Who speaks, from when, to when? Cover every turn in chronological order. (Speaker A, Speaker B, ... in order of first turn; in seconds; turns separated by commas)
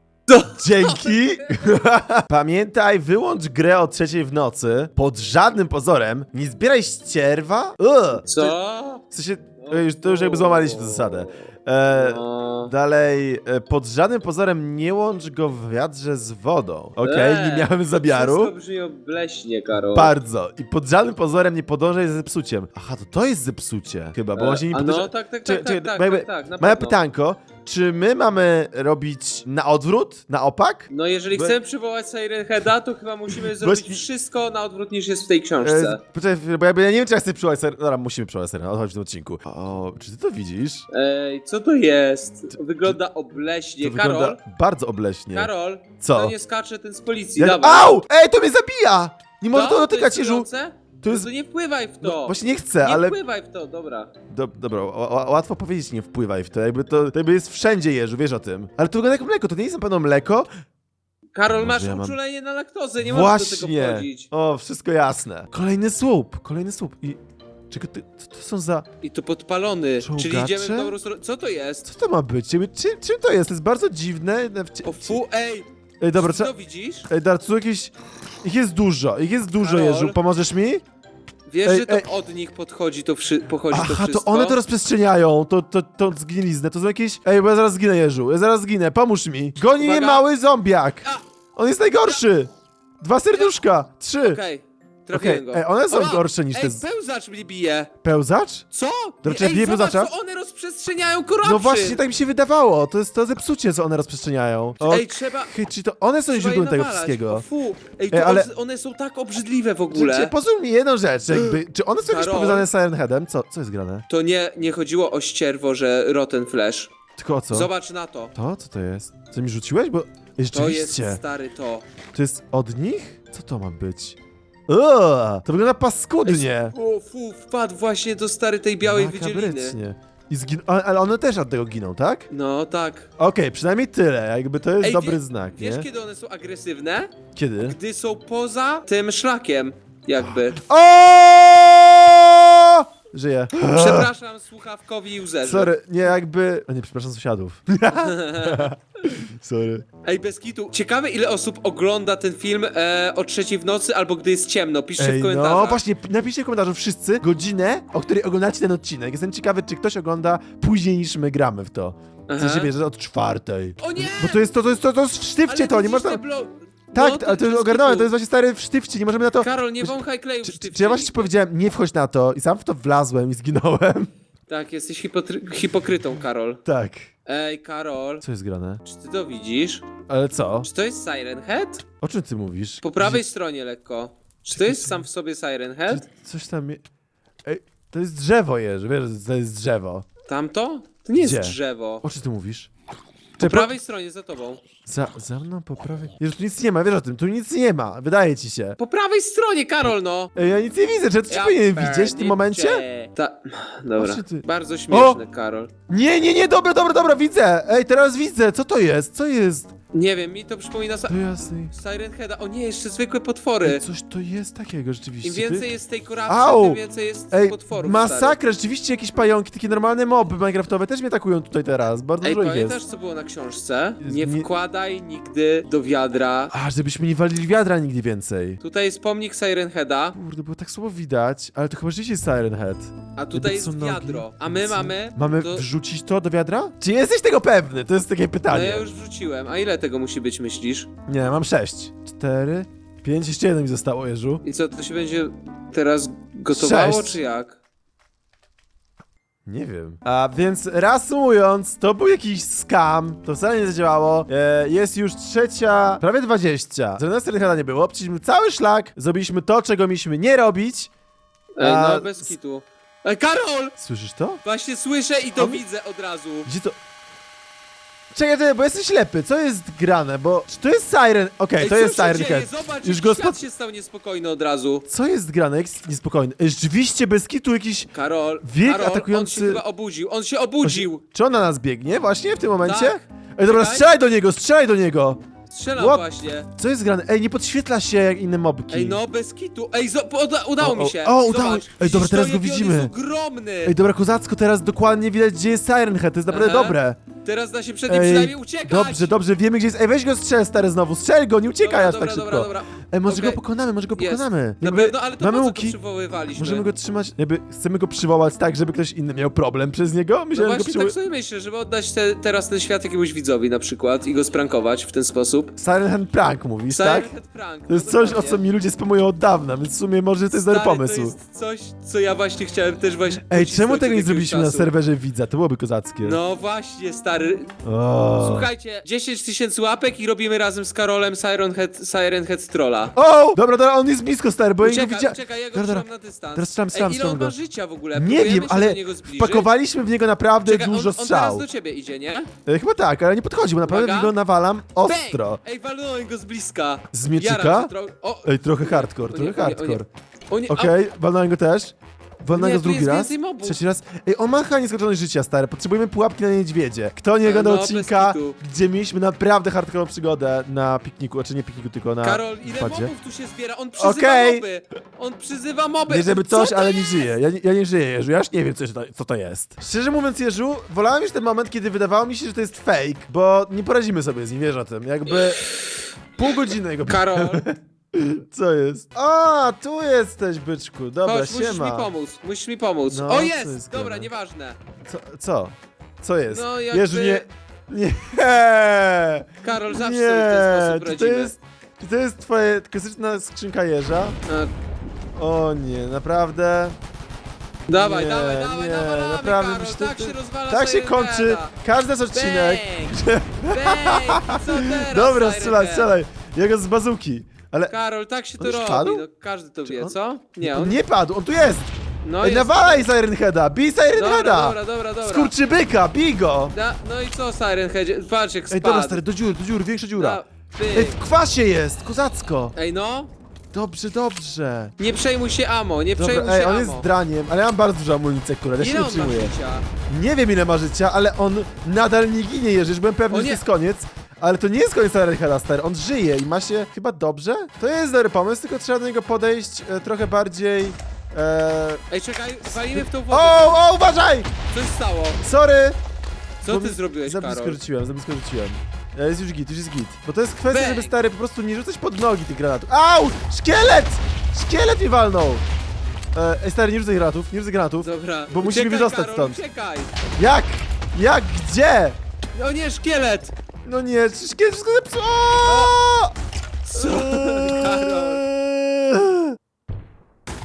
Speaker A: 0.3-1.8, Speaker B: 0.5-8.5, Speaker A: 8.2-9.0, Speaker B: 9.1-18.5, Speaker A: 9.6-11.3, Speaker A: 11.9-12.7, Speaker A: 17.0-20.1, Speaker B: 19.9-31.6, Speaker A: 24.3-27.0, Speaker A: 30.9-36.0, Speaker B: 33.3-34.0, Speaker B: 35.6-40.9, Speaker A: 40.9-44.4, Speaker B: 43.8-46.3, Speaker A: 45.3-48.0, Speaker B: 47.4-50.5, Speaker A: 49.5-54.1, Speaker B: 51.0-51.3, Speaker B: 52.0-53.2, Speaker B: 54.3-60.5, Speaker A: 61.3-64.3, Speaker B: 61.5-62.2, Speaker B: 63.0-68.8, Speaker A: 69.0-71.8, Speaker B: 70.0-70.9, Speaker B: 71.8-75.2, Speaker A: 74.8-77.1, Speaker B: 76.0-76.5, Speaker B: 77.1-80.8, Speaker A: 79.6-80.2, Speaker A: 81.5-84.6, Speaker B: 81.6-82.1, Speaker B: 83.7-94.4, Speaker A: 89.7-90.3, Speaker A: 93.3-93.6, Speaker A: 94.2-97.9, Speaker B: 95.1-96.8, Speaker B: 98.0-98.7, Speaker A: 98.7-102.0, Speaker B: 99.2-100.1, Speaker B: 101.4-107.4, Speaker A: 104.8-105.5, Speaker A: 106.3-110.3, Speaker B: 108.1-108.5, Speaker B: 109.9-114.1, Speaker A: 111.3-112.7, Speaker A: 114.1-116.9, Speaker B: 117.2-117.7, Speaker A: 117.5-118.3, Speaker B: 118.3-121.2, Speaker A: 120.5-121.8, Speaker B: 122.1-126.8, Speaker A: 126.2-129.8, Speaker B: 128.8-132.3, Speaker A: 132.3-133.1, Speaker B: 133.2-135.8, Speaker A: 134.8-140.6, Speaker B: 137.3-137.8, Speaker B: 140.2-144.1, Speaker A: 143.6-145.7, Speaker B: 145.4-149.8, Speaker A: 147.9-148.7, Speaker A: 150.0-155.8, Speaker B: 155.0-166.2, Speaker A: 162.3-162.7, Speaker A: 163.8-164.4, Speaker A: 165.4-168.1, Speaker B: 166.9-174.1, Speaker A: 169.4-171.3, Speaker A: 174.5-176.6, Speaker B: 176.6-177.1, Speaker A: 177.2-178.2, Speaker B: 178.2-178.8, Speaker A: 178.8-179.8, Speaker B: 180.1-180.7, Speaker A: 180.6-181.8, Speaker B: 182.0-183.2, Speaker A: 182.8-186.1, Speaker B: 184.5-185.0, Speaker B: 185.9-186.8, Speaker B: 187.4-190.1, Speaker A: 190.2-192.0, Speaker B: 191.2-192.7, Speaker B: 193.4-193.7, Speaker A: 193.4-194.6, Speaker B: 194.8-198.8, Speaker A: 198.8-200.3, Speaker B: 200.3-202.8, Speaker A: 201.3-205.7, Speaker B: 204.0-205.2, Speaker B: 205.9-209.7, Speaker A: 209.9-213.8, Speaker B: 211.1-211.7, Speaker B: 213.6-215.7, Speaker A: 215.2-218.4, Speaker B: 216.3-222.8, Speaker A: 222.2-226.5, Speaker B: 224.0-224.5, Speaker B: 226.5-228.6, Speaker A: 228.6-230.2, Speaker B: 230.1-238.9, Speaker A: 233.2-235.7, Speaker A: 238.5-240.9, Speaker B: 241.1-244.4, Speaker A: 244.4-247.6, Speaker B: 246.5-247.2, Speaker B: 249.5-260.9, Speaker A: 261.6-263.8, Speaker B: 261.6-262.3, Speaker B: 263.8-264.4, Speaker A: 264.4-266.5, Speaker B: 265.3-265.6, Speaker B: 266.4-266.8, Speaker B: 268.1-273.4, Speaker A: 271.6-274.9, Speaker B: 274.9-277.9, Speaker A: 277.9-281.0, Speaker B: 278.4-279.6, Speaker B: 280.6-285.2, Speaker A: 282.6-283.9, Speaker A: 285.5-286.5, Speaker B: 285.8-289.0, Speaker A: 288.7-293.8, Speaker B: 290.6-292.9, Speaker B: 293.6-297.0, Speaker A: 296.3-299.1, Speaker B: 297.9-305.8, Speaker A: 301.6-303.4, Speaker A: 303.9-306.7, Speaker B: 306.4-310.9, Speaker A: 310.3-315.5, Speaker B: 315.6-317.1, Speaker A: 316.7-318.4, Speaker B: 317.7-321.1, Speaker A: 320.3-324.7, Speaker B: 323.1-326.2, Speaker A: 326.0-327.5, Speaker B: 327.6-328.5, Speaker A: 328.2-332.9, Speaker B: 332.9-337.3, Speaker A: 334.6-339.5, Speaker B: 337.9-341.5, Speaker A: 340.4-342.3, Speaker B: 342.4-345.4, Speaker A: 343.6-344.1, Speaker A: 344.8-350.8, Speaker B: 346.9-347.7, Speaker B: 348.2-349.9, Speaker B: 350.5-362.9, Speaker A: 352.3-353.6, Speaker A: 357.2-358.4, Speaker A: 362.0-367.1, Speaker B: 363.8-364.4, Speaker B: 365.9-375.5, Speaker A: 375.1-377.4, Speaker B: 376.2-381.9, Speaker A: 381.0-384.6, Speaker B: 382.9-384.1, Speaker B: 384.8-394.2, Speaker A: 386.3-387.2, Speaker A: 389.4-391.3, Speaker A: 394.2-394.5, Speaker B: 395.1-396.8, Speaker A: 397.7-401.5, Speaker B: 397.7-407.7, Speaker A: 402.1-405.9, Speaker A: 407.7-410.8, Speaker B: 408.4-409.0, Speaker B: 409.6-416.5, Speaker A: 412.0-412.9, Speaker A: 413.9-415.3, Speaker A: 416.5-419.0, Speaker B: 418.5-422.5, Speaker A: 420.0-421.0, Speaker A: 422.5-423.1, Speaker B: 423.5-424.7, Speaker A: 424.8-426.9, Speaker B: 426.0-429.3, Speaker A: 428.6-429.7, Speaker B: 429.9-441.8, Speaker A: 433.1-433.4, Speaker A: 441.9-443.6, Speaker B: 442.5-444.3, Speaker A: 444.5-445.2, Speaker B: 445.2-445.8, Speaker A: 446.4-447.6, Speaker B: 446.4-455.4, Speaker A: 450.5-451.0, Speaker B: 456.1-459.4, Speaker A: 457.8-459.9, Speaker B: 460.2-462.0, Speaker A: 462.3-463.3, Speaker B: 463.6-466.1, Speaker A: 465.4-465.8, Speaker A: 466.6-468.2, Speaker B: 466.7-469.3